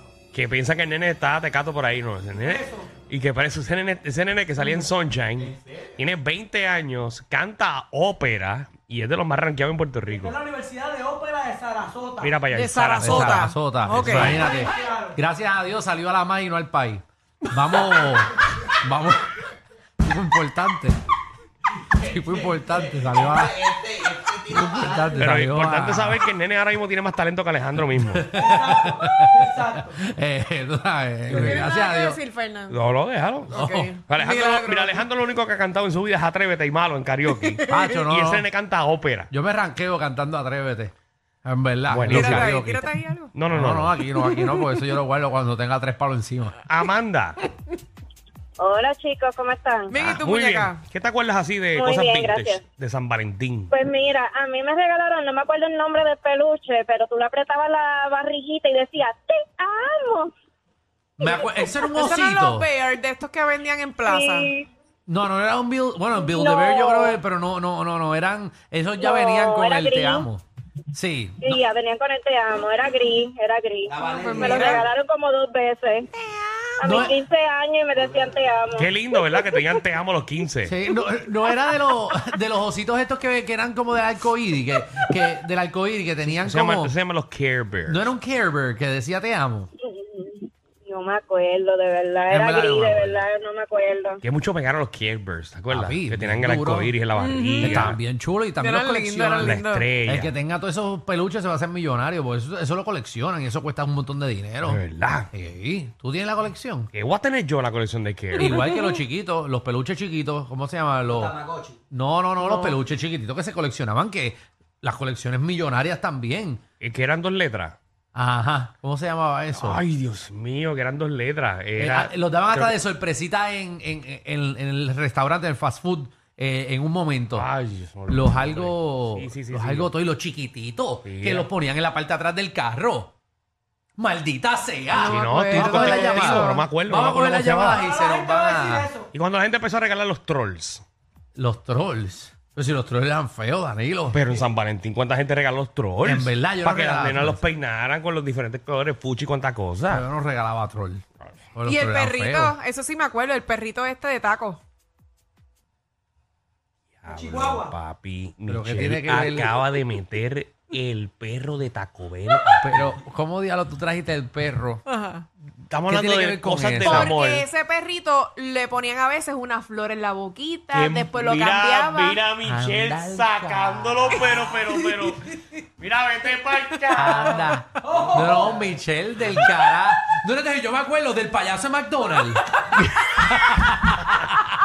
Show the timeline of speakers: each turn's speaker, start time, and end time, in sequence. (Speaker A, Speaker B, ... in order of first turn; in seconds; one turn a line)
Speaker A: 0.3-10.4
Speaker B: 10.3-12.3
Speaker A: 12.2-14.5
Speaker C: 12.5-14.4
Speaker D: 13.0-19.4
Speaker D: 20.0-21.0
Speaker D: 22.0-23.6
Speaker E: 22.8-25.1
Speaker D: 24.3-26.2
Speaker A: 25.2-28.3
Speaker D: 28.1-32.2
Speaker B: 28.5-29.8
Speaker A: 31.3-31.6
Speaker C: 31.3-32.8
Speaker A: 32.7-39.3
Speaker D: 33.5-33.9
Speaker C: 33.5-35.0
Speaker C: 37.5-38.0
Speaker D: 37.7-38.5
Speaker D: 39.3-40.9
Speaker D: 41.4-42.9
Speaker A: 41.9-42.5
Speaker C: 42.1-43.3
Speaker A: 43.3-43.9
Speaker D: 43.5-46.6
Speaker C: 44.2-44.7
Speaker A: 46.6-47.4
Speaker E: 48.6-49.9
Speaker C: 49.9-50.8
Speaker A: 50.0-53.7
Speaker E: 51.8-52.6
Speaker E: 53.7-60.3
Speaker D: 61.2-62.7
Speaker E: 61.2-61.5
Speaker C: 61.9-64.5
Speaker E: 64.0-64.7
Speaker D: 65.1-71.6
Speaker E: 66.2-67.1
Speaker E: 69.0-70.2
Speaker E: 71.4-76.0
Speaker C: 74.2-74.9
Speaker E: 76.8-79.4
Speaker D: 76.8-77.2
Speaker A: 78.7-80.7
Speaker D: 80.6-86.9
Speaker A: 86.4-88.1
Speaker D: 87.8-89.7
Speaker E: 89.9-94.2
Speaker D: 92.3-93.2
Speaker A: 94.2-98.0
Speaker D: 95.7-96.9
Speaker C: 97.2-97.9
Speaker D: 97.6-106.9
Speaker C: 98.6-99.9
Speaker A: 99.4-100.3
Speaker A: 104.6-105.3
Speaker A: 106.9-108.5
Speaker D: 108.4-111.4
Speaker C: 108.5-109.0
Speaker E: 111.1-111.7
Speaker D: 111.9-116.6
Speaker C: 112.4-112.7
Speaker A: 116.8-117.8
Speaker D: 118.1-119.8
Speaker A: 119.5-122.7
Speaker D: 121.8-127.5
Speaker A: 127.3-129.9
Speaker D: 128.1-133.1
Speaker A: 131.0-131.5
Speaker D: 134.0-139.0
Speaker C: 134.9-136.6
Speaker A: 135.0-137.9
Speaker B: 138.0-138.8
Speaker A: 139.1-140.8
Speaker D: 141.3-144.2
Speaker A: 144.1-150.1
Speaker D: 146.0-147.4
Speaker D: 149.9-151.0
Speaker D: 151.5-152.6
Speaker C: 151.6-154.6
Speaker A: 157.0-163.0
Speaker B: 157.1-157.6
Speaker D: 158.5-159.6
Speaker D: 162.6-164.8
Speaker C: 164.9-165.2
Speaker A: 165.7-167.5
Speaker D: 165.8-167.1
Speaker C: 166.8-172.2
Speaker A: 170.7-175.2
Speaker D: 172.4-174.3
Speaker C: 174.2-174.4
Speaker A: 175.8-177.5
Speaker D: 176.9-184.1